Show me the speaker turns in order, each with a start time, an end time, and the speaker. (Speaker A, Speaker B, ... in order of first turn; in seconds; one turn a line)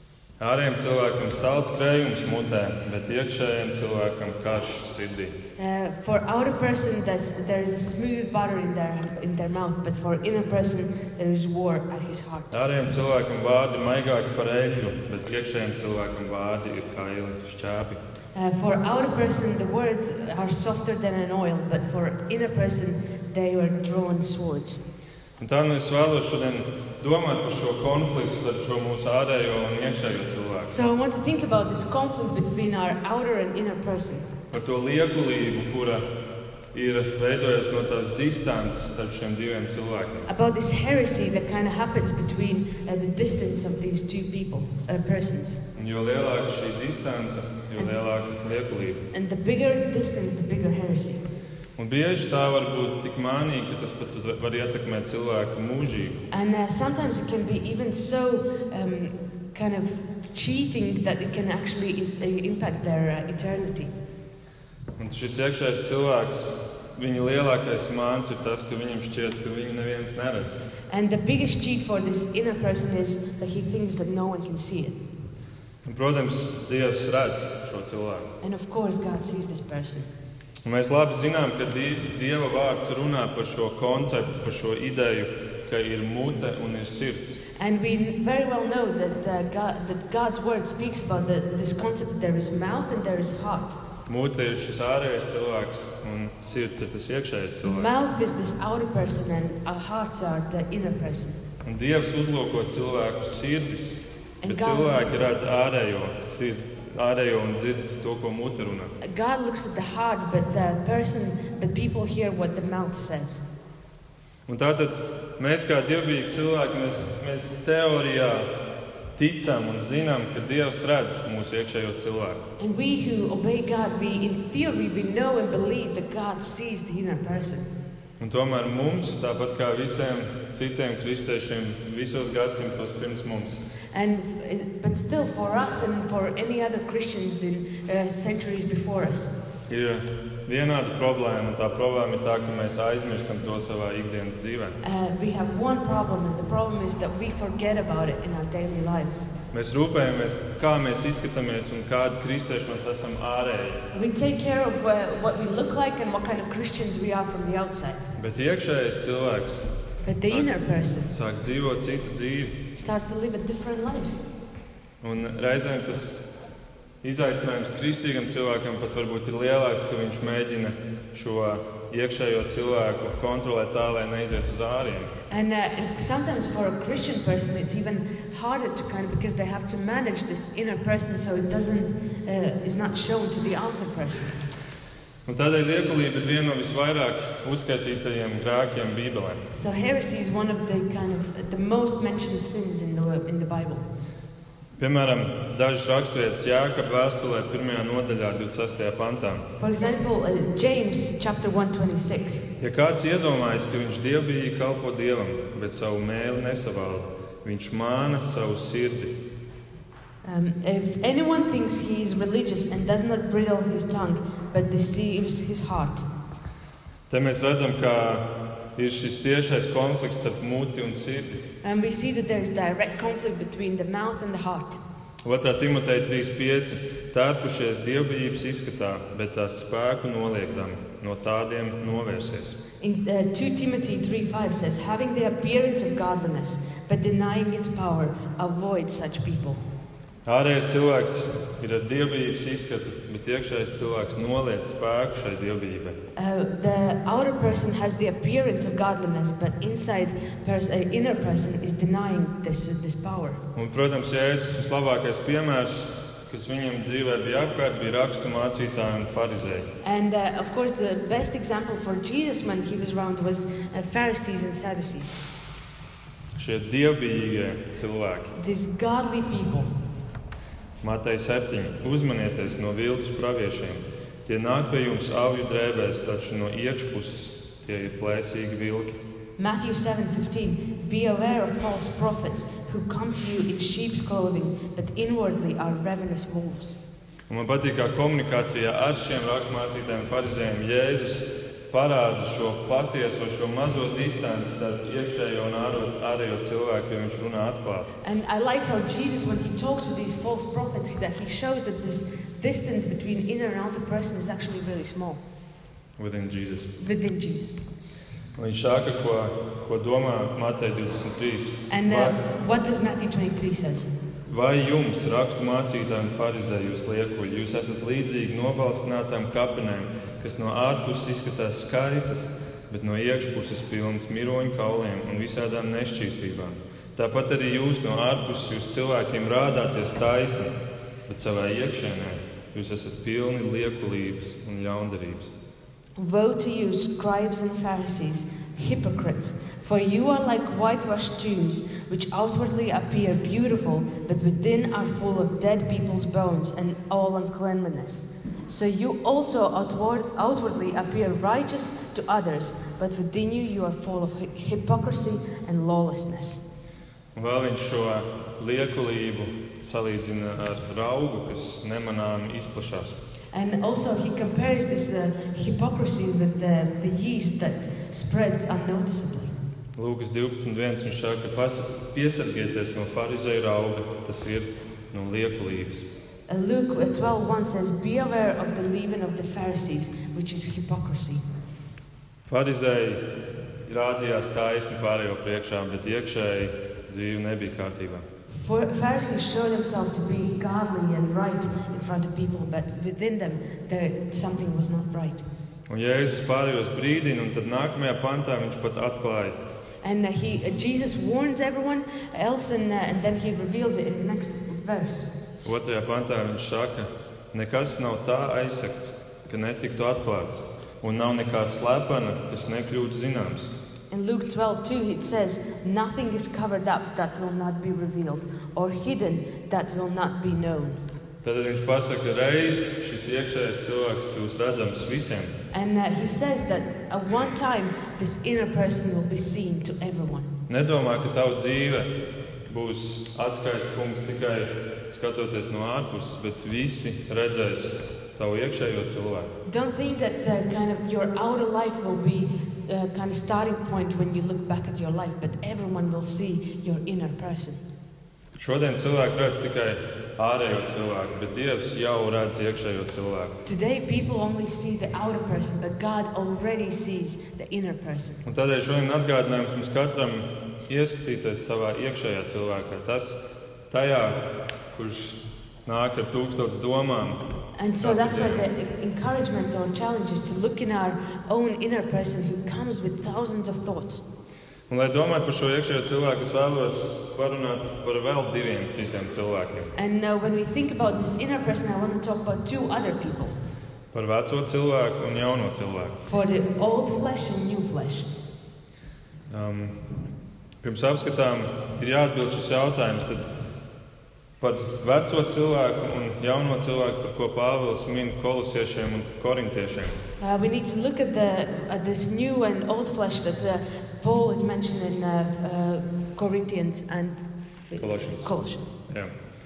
Speaker A: 0.4-5.3
Speaker B: 5.6-12.5
Speaker A: 12.5-18.0
Speaker B: 18.3-24.8
Speaker A: 25.4-30.7
Speaker B: 30.7-34.3
Speaker A: 34.5-36.1
Speaker A: 36.7-40.3
Speaker B: 40.3-45.6
Speaker A: 45.7-49.0
Speaker B: 49.1-51.2
Speaker A: 51.8-56.2
Speaker B: 56.3-63.9
Speaker A: 65.0-70.6
Speaker B: 70.9-75.0
Speaker A: 75.8-78.3
Speaker B: 78.4-80.1
Speaker A: 80.6-87.4
Speaker B: 87.5-93.8
Speaker A: 94.1-98.0
Speaker B: 97.6-101.4
Speaker A: 101.6-108.9
Speaker B: 104.4-105.1
Speaker B: 109.0-113.4
Speaker A: 114.5-118.5
Speaker A: 119.2-122.4
Speaker B: 122.6-127.7
Speaker A: 128.2-133.6
Speaker B: 133.9-139.3
Speaker A: 139.7-144.8
Speaker B: 144.8-149.3
Speaker A: 149.5-153.8
Speaker B: 153.9-158.0
Speaker A: 158.2-160.5
Speaker B: 160.0-161.1
Speaker A: 161.1-162.6
Speaker B: 162.7-164.2
Speaker A: 165.0-166.3
Speaker A: 167.0-175.1
Speaker B: 175.3-184.4
Speaker A: 185.2-189.4
Speaker B: 189.5-193.8
Speaker A: 194.8-199.5
Speaker B: 199.6-202.4
Speaker A: 202.6-209.1
Speaker B: 210.2-216.0
Speaker A: 217.1-221.4
Speaker B: 221.6-224.8
Speaker A: 225.2-232.6
Speaker B: 232.8-239.6
Speaker A: 240.2-246.0
Speaker B: 246.2-253.4
Speaker A: 253.5-259.7
Speaker B: 259.8-265.2
Speaker A: 266.4-268.3
Speaker B: 268.3-269.7
Speaker A: 270.8-279.0
Speaker B: 279.4-286.8
Speaker A: 287.3-297.9
Speaker B: 298.0-305.2
Speaker A: 306.0-306.7
Speaker B: 306.8-307.6
Speaker A: 308.4-312.1
Speaker B: 311.7-313.9
Speaker A: 314.3-330.5
Speaker A: 331.1-335.3
Speaker B: 336.0-356.4
Speaker A: 357.1-363.0
Speaker B: 363.3-369.3
Speaker A: 369.8-375.9
Speaker B: 376.3-381.2
Speaker A: 382.3-383.0
Speaker A: 383.6-388.0
Speaker B: 388.3-395.2
Speaker A: 395.7-399.4
Speaker B: 399.8-405.1
Speaker A: 405.4-413.5
Speaker B: 413.9-420.8
Speaker A: 421.2-425.3
Speaker B: 425.5-430.3
Speaker A: 430.5-431.9
Speaker A: 432.5-439.3
Speaker B: 439.4-447.6
Speaker A: 448.4-453.4
Speaker B: 453.4-458.2
Speaker A: 458.2-464.2
Speaker A: 464.7-467.2
Speaker B: 467.6-474.0
Speaker A: 467.8-468.4
Speaker A: 474.7-479.7
Speaker B: 479.7-483.4
Speaker A: 483.9-486.0
Speaker B: 486.0-488.1
Speaker A: 489.3-489.8
Speaker A: 490.6-493.2
Speaker A: 494.4-500.0
Speaker B: 500.2-508.7
Speaker A: 507.8-508.3
Speaker A: 508.9-509.1